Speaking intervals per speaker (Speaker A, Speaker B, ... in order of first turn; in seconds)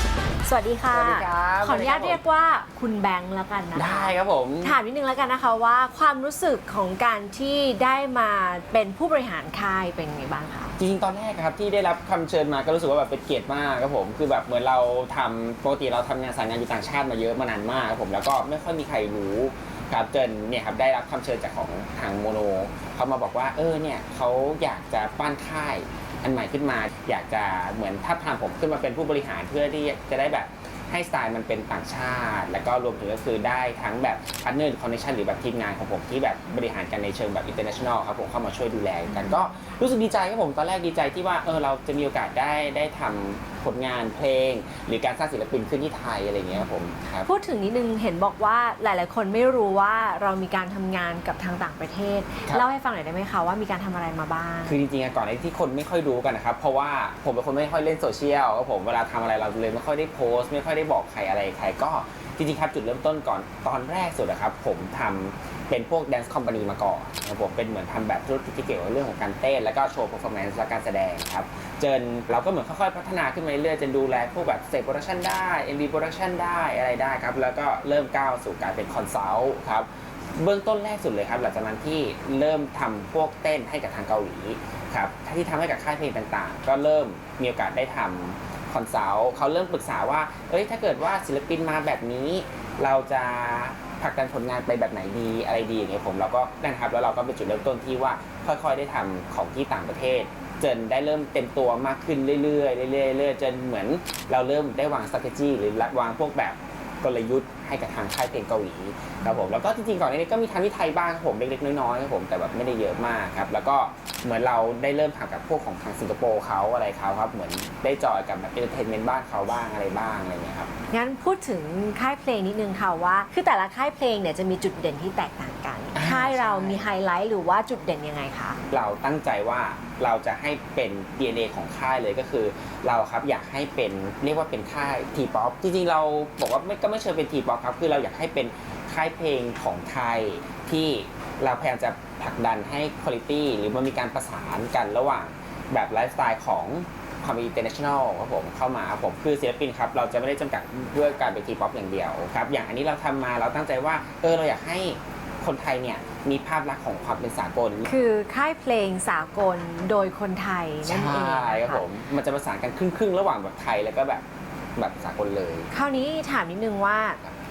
Speaker A: 0.5-10.7, 47.2-54.8, 120.9-128.6, 157.9-161.8, 165.7-167.2
Speaker B: 0.9-2.2, 3.7-4.8, 10.8-47.3, 54.7-120.7, 125.9-126.9, 128.7-157.9, 160.8-164.2, 164.8-165.7